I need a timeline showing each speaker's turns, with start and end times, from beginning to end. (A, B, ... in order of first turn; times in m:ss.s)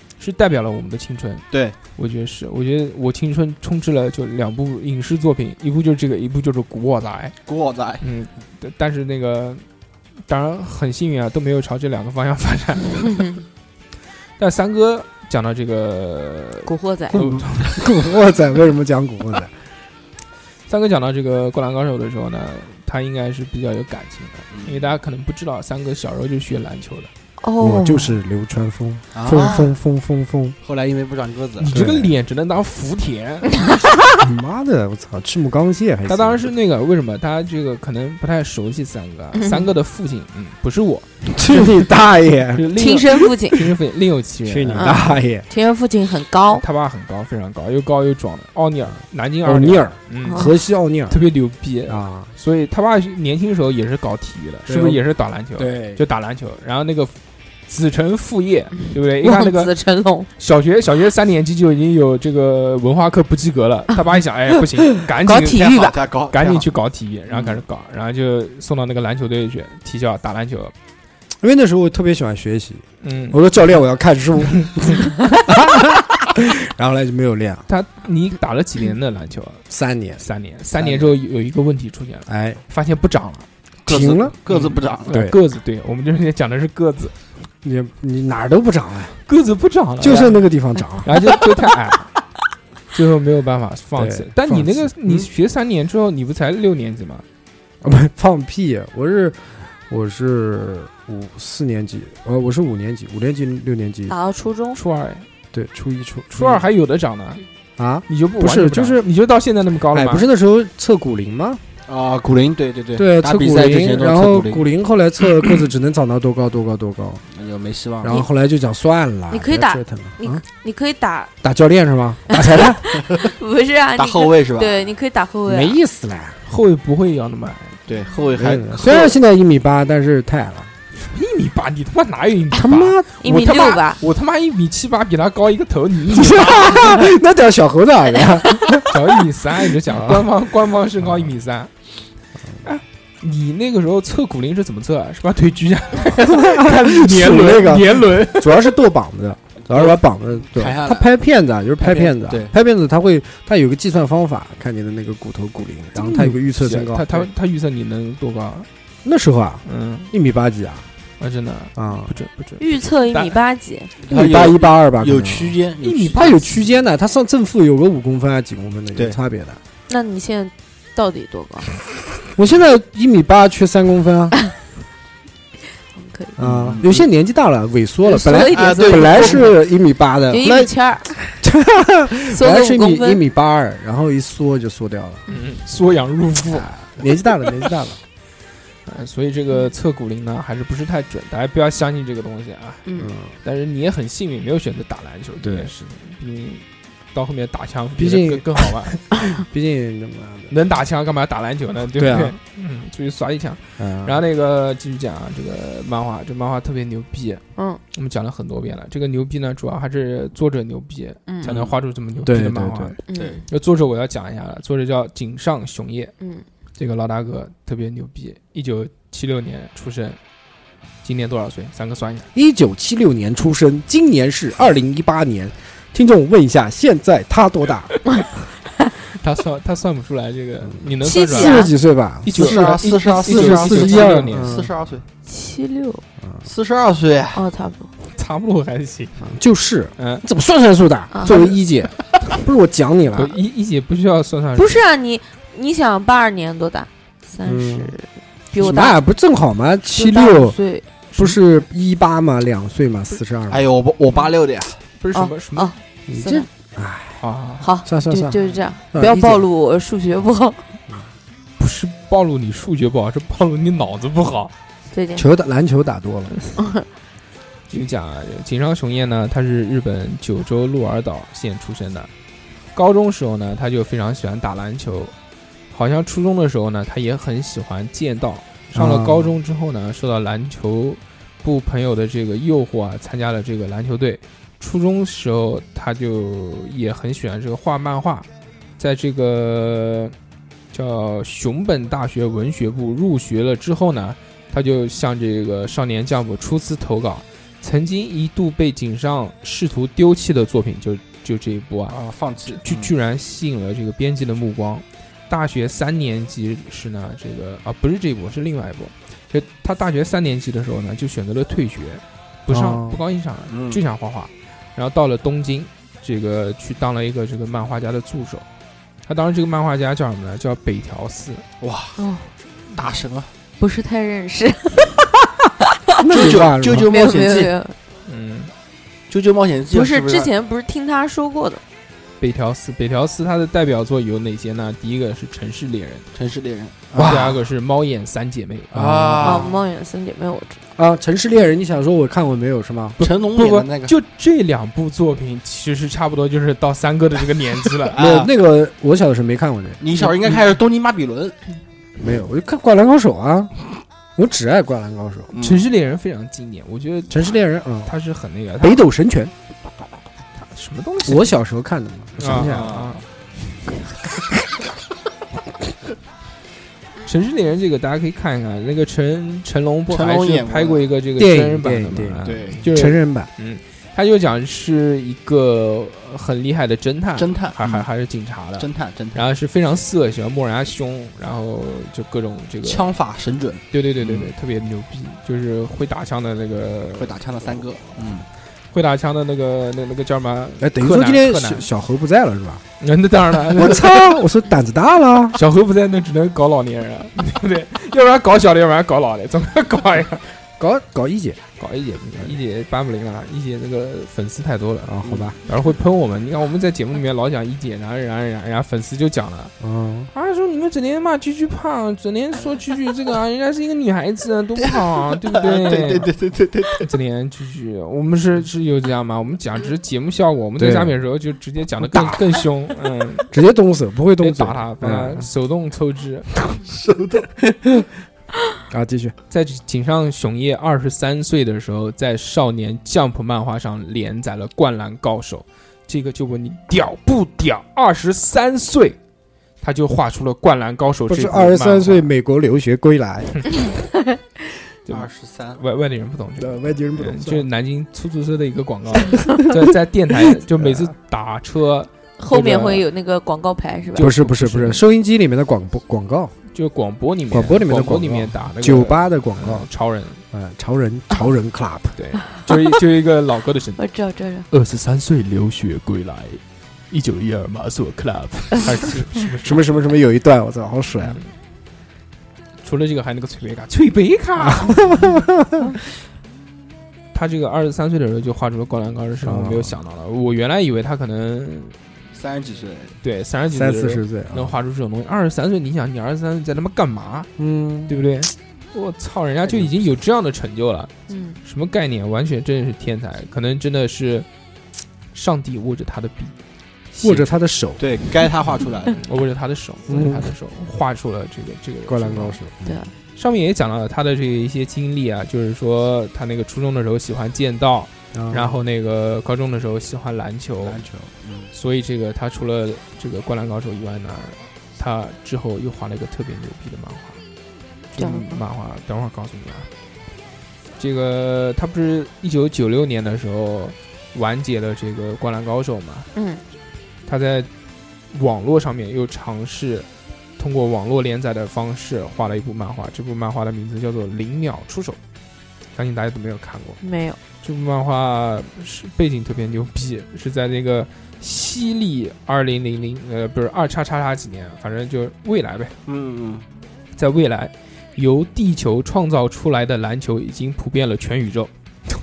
0:00.2-0:07.4 A
0:01.5-0:01.8 B
0:07.4-0:08.0 B
0:08.0-0:09.6 A
0:10.3-0:13.4 A
0:14.4-0:17.9 A
0:16.6-0:17.2 C
0:17.1-0:19.5 D
0:20.7-0:27.1 A
0:24.5-0:24.9 B
0:27.4-0:28.2 C
0:27.6-0:30.6 D
0:29.1-0:29.7 B
0:29.3-0:29.6 C
0:30.6-0:31.7 B
0:31.6-0:33.6 A
0:31.7-0:32.1 D
0:34.2-0:36.4 D
0:36.1-0:41.6 A
0:39.4-0:39.6 C
0:41.2-0:42.7 D
0:42.5-0:45.0 A
0:42.8-0:43.7 C
0:44.4-0:45.5 D
0:44.7-0:46.6 C
0:46.6-0:50.5 A
0:49.4-0:51.2 D
0:50.2-0:50.5 C
0:51.1-0:57.1 A
0:51.9-0:52.3 D
0:54.6-0:55.0 D
0:55.6-0:56.0 D
0:57.7-0:59.7 A
0:59.2-1:00.3 C
1:00.4-1:10.7 A
1:05.3-1:06.7 B
1:07.3-1:07.6 B
1:11.4-1:17.6 D
1:13.0-1:13.4 A
1:17.7-1:19.6 A
1:19.7-1:20.2 D
1:20.2-1:23.5 A
1:20.8-1:21.1 B
1:22.3-1:22.6 D
1:23.9-1:25.2 B
1:23.9-1:24.3 D
1:24.5-1:27.2 A
1:25.1-1:25.4 D
1:27.6-1:29.2 D
1:29.2-1:30.4 A
1:30.0-1:31.3 D
1:31.0-1:32.1 A
1:32.9-1:37.2 A
1:34.0-1:35.2 D
1:37.8-1:44.1 D
1:44.1-1:44.8 C
1:44.7-1:45.3 A
1:45.5-1:46.6 D
1:46.3-1:47.4 A
1:47.8-1:49.0 D
1:48.1-1:50.2 A
1:49.9-1:51.6 D
1:51.9-1:54.6 B
1:53.0-1:57.2 D
1:57.3-1:58.2 B
1:58.0-2:00.4 D
1:59.3-2:01.3 C
2:01.4-2:03.0 D
2:02.3-2:05.8 C
2:04.0-2:04.9 B
2:05.5-2:06.4 D
2:06.5-2:07.8 A
2:07.9-2:09.1 B
2:08.4-2:10.7 D
2:11.0-2:17.1 A
2:12.5-2:13.1 D
2:13.2-2:14.0 C
2:16.1-2:19.0 D
2:18.9-2:21.7 A
2:19.9-2:20.2 D
2:21.0-2:21.3 D
2:22.6-2:28.8 A
2:26.3-2:37.2 D
2:29.6-2:31.1 B
2:31.8-2:32.5 B
2:36.0-2:38.7 A
2:39.0-2:40.9 D
2:39.6-2:40.1 A
2:41.2-2:43.4 A
2:41.8-2:42.1 D
2:42.6-2:43.9 C
2:44.0-2:46.4 B
2:44.1-2:45.6 D
2:45.8-2:46.6 A
2:46.1-2:49.6 D
2:49.9-2:51.7 C
2:52.3-2:54.4 D
2:55.9-2:56.4 C
2:56.4-3:05.2 D
2:56.4-2:57.0 B
2:58.0-2:59.5 C
2:58.4-2:59.5 B
3:00.3-3:01.2 C
3:02.3-3:03.2 C
3:05.3-3:07.0 A
3:06.5-3:08.0 D
3:08.8-3:12.9 A
3:12.8-3:13.1 C
3:13.0-3:13.3 D
3:13.4-3:18.9 A
3:15.4-3:15.7 D
3:18.0-3:20.5 D
3:20.5-3:36.1 A
3:22.0-3:22.3 D
3:23.8-3:24.2 D
3:27.6-3:27.8 C
3:31.3-3:31.6 C
3:32.2-3:33.0 D
3:33.1-3:33.4 C
3:33.2-3:33.4 B
3:36.2-3:36.4 C
3:36.8-3:40.2 A
3:41.0-3:42.3 A
3:42.3-3:48.0 D
3:49.0-3:51.6 A
3:50.6-3:54.7 D
3:51.0-3:51.7 C
3:52.2-3:54.6 A
3:52.3-3:55.0 B
3:55.2-3:56.0 C
3:56.4-3:57.4 B
3:57.3-3:57.9 C
3:58.1-3:59.4 A
3:59.3-4:03.4 D
4:00.0-4:00.2 A
4:01.1-4:01.5 C
4:03.1-4:04.8 A
4:04.6-4:09.0 C
4:07.4-4:08.0 D
4:08.5-4:10.6 D
4:09.9-4:10.8 C
4:11.1-4:11.4 A
4:11.2-4:13.7 D
4:13.5-4:14.8 B
4:15.0-4:15.7 A
4:15.1-4:16.5 C
4:16.1-4:17.2 D
4:17.2-4:17.7 A
4:17.6-4:20.6 C
4:17.8-4:18.4 D
4:18.9-4:19.4 D
4:21.6-4:24.5 A
4:24.9-4:25.2 C
4:25.1-4:26.3 D
4:26.6-4:26.9 C
4:27.7-4:32.1 A
4:32.7-4:35.1 A
4:35.7-4:48.2 A
4:38.7-4:39.3 D
4:48.8-4:50.1 A
4:50.7-5:02.0 A
5:01.9-5:02.9 B
5:02.5-5:18.4 A
5:12.5-5:13.0 D
5:13.5-5:13.8 B
5:19.0-5:21.4 A
5:21.6-5:22.0 B
5:22.0-5:22.3 C
5:22.7-5:23.3 B
5:23.6-5:25.0 C
5:26.0-5:26.9 D
5:26.1-5:27.5 B
5:26.2-5:27.8 C
5:28.0-5:28.5 A
5:29.1-5:30.3 B
5:29.7-5:31.6 C
5:32.2-5:36.0 A
5:36.1-5:37.3 B
5:37.0-5:39.0 A
5:37.0-5:37.3 D
5:38.7-5:39.5 D
5:38.8-5:39.6 B
5:39.2-5:40.6 C
5:40.8-5:43.0 D
5:43.0-5:48.0 A
5:43.0-5:43.9 B
5:47.9-5:48.3 B
5:48.0-5:49.8 D
5:49.8-5:51.4 B
5:50.0-5:50.5 A
5:52.0-5:53.5 D
5:54.2-5:55.3 D
5:55.3-5:55.6 B
5:55.4-5:58.8 A
5:57.1-5:57.9 D
5:58.6-5:59.3 D
6:00.4-6:01.3 A
6:01.0-6:02.8 D
6:02.2-6:03.0 A
6:02.3-6:03.0 B
6:07.0-6:22.8 A
6:09.9-6:10.9 B
6:11.2-6:13.3 D
6:12.2-6:12.6 B
6:17.2-6:17.9 B
6:18.6-6:19.2 B
6:22.6-6:24.3 B
6:23.7-6:27.2 A
6:27.0-6:28.2 B
6:28.7-6:31.7 A
6:30.6-6:32.6 D
6:32.8-6:34.2 A
6:33.5-6:35.4 D
6:35.3-6:40.2 A
6:40.6-6:41.4 D
6:41.6-6:49.5 A
6:44.8-6:45.4 D
6:45.0-6:45.3 B
6:49.6-6:50.1 D
6:50.1-6:56.1 A
6:54.6-6:56.9 B
6:56.8-7:03.3 A
7:00.6-7:01.0 D
7:01.8-7:02.2 D
7:03.3-7:05.3 D
7:04.2-7:06.3 A
7:06.6-7:07.4 B
7:08.7-7:09.1 D
7:09.3-7:19.0 A
7:19.6-7:22.1 A
7:21.1-7:23.6 D
7:24.8-7:32.8 A
7:24.9-7:25.6 B
7:26.4-7:27.5 D
7:30.5-7:30.9 D
7:32.2-7:34.1 C
7:34.0-7:34.8 A
7:34.0-7:36.3 D
7:36.5-7:40.2 A
7:37.3-7:39.7 D
7:40.3-7:42.0 D
7:42.0-7:43.8 A
7:43.8-7:44.5 C
7:44.5-7:49.6 A
7:49.4-7:51.2 D
7:51.0-7:51.3 A
7:52.6-7:55.1 A
7:54.4-7:55.6 D
7:57.1-8:01.8 A
7:59.2-7:59.8 D
8:02.1-8:03.0 B
8:03.0-8:07.3 A
8:03.5-8:04.5 D
8:07.4-8:07.9 D
8:07.9-8:10.9 A
8:09.4-8:09.7 B
8:11.1-8:11.4 C
8:11.4-8:14.3 A
8:15.1-8:16.3 A
8:16.9-8:17.3 A
8:17.0-8:17.8 D
8:17.8-8:19.0 B
8:18.9-8:22.4 A
8:19.9-8:20.3 D
8:21.9-8:22.8 D
8:22.6-8:22.9 C
8:23.2-8:30.8 A
8:28.1-8:28.6 D
8:30.6-8:31.5 B
8:31.5-8:37.2 A
8:37.9-8:39.7 A
8:38.0-8:38.4 C
8:40.8-8:46.1 A
8:46.1-8:46.4 C
8:47.0-8:47.5 A
8:48.1-8:49.9 A
8:50.4-8:55.0 A
8:55.8-8:56.8 A
8:56.8-8:57.2 C
8:57.4-9:05.8 A
9:05.8-9:06.5 B
9:07.0-9:11.5 A